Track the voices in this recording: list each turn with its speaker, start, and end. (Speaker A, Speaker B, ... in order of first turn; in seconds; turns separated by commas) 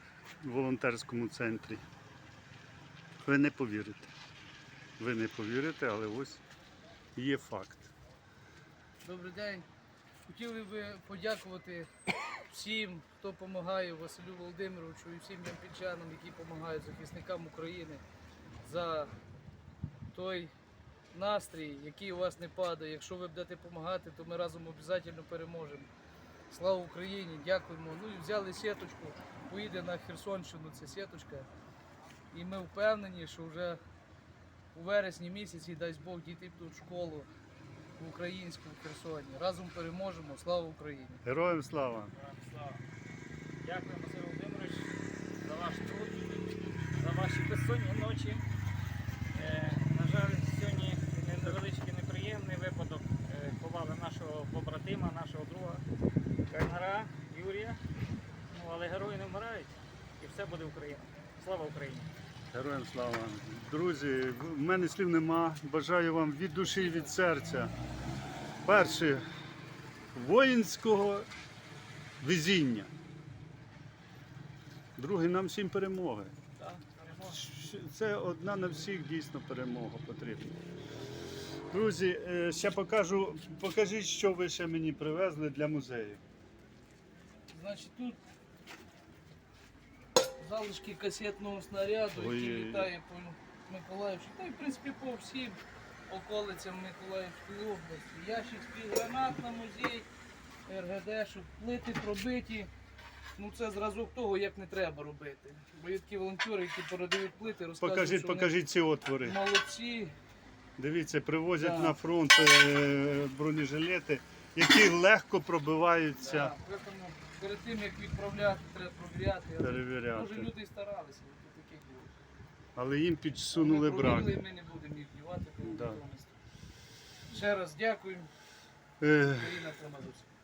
Speaker A: 0.4-1.8, Speaker A: 3.2-4.1, Speaker A: 5.0-6.4, Speaker A: 7.2-7.9, Speaker B: 9.0-9.7, Speaker B: 10.3-11.9, Speaker B: 12.5-18.0, Speaker B: 18.6-19.1, Speaker B: 20.1-20.5, Speaker B: 21.1-25.9, Speaker B: 26.5-31.5, Speaker B: 32.3-33.8, Speaker B: 34.7-37.3, Speaker B: 38.0-41.2, Speaker A: 41.2-42.1, Speaker C: 42.1-42.8, Speaker C: 43.6-46.4, Speaker C: 47.0-48.5, Speaker C: 49.3-55.9, Speaker C: 56.5-57.8, Speaker C: 58.5-62.1, Speaker A: 62.5-67.7, Speaker C: 66.6-67.2, Speaker A: 68.7-69.3, Speaker A: 70.1-71.3, Speaker A: 72.2-72.9, Speaker A: 75.0-76.3, Speaker C: 76.6-77.4, Speaker A: 77.3-80.6, Speaker A: 81.7-86.2, Speaker B: 87.5-88.2, Speaker B: 90.4-100.1, Speaker A: 92.1-92.9, Speaker B: 100.7-102.7, Speaker B: 103.4-108.5, Speaker A: 107.8-109.4, Speaker B: 109.2-110.2, Speaker A: 110.8-116.5, Speaker B: 111.6-112.0, Speaker B: 116.2-122.1, Speaker A: 119.6-120.5, Speaker A: 122.8-124.4, Speaker B: 123.5-126.3, Speaker A: 125.6-126.0, Speaker B: 127.3-128.3, Speaker A: 129.0-129.6, Speaker B: 129.3-130.3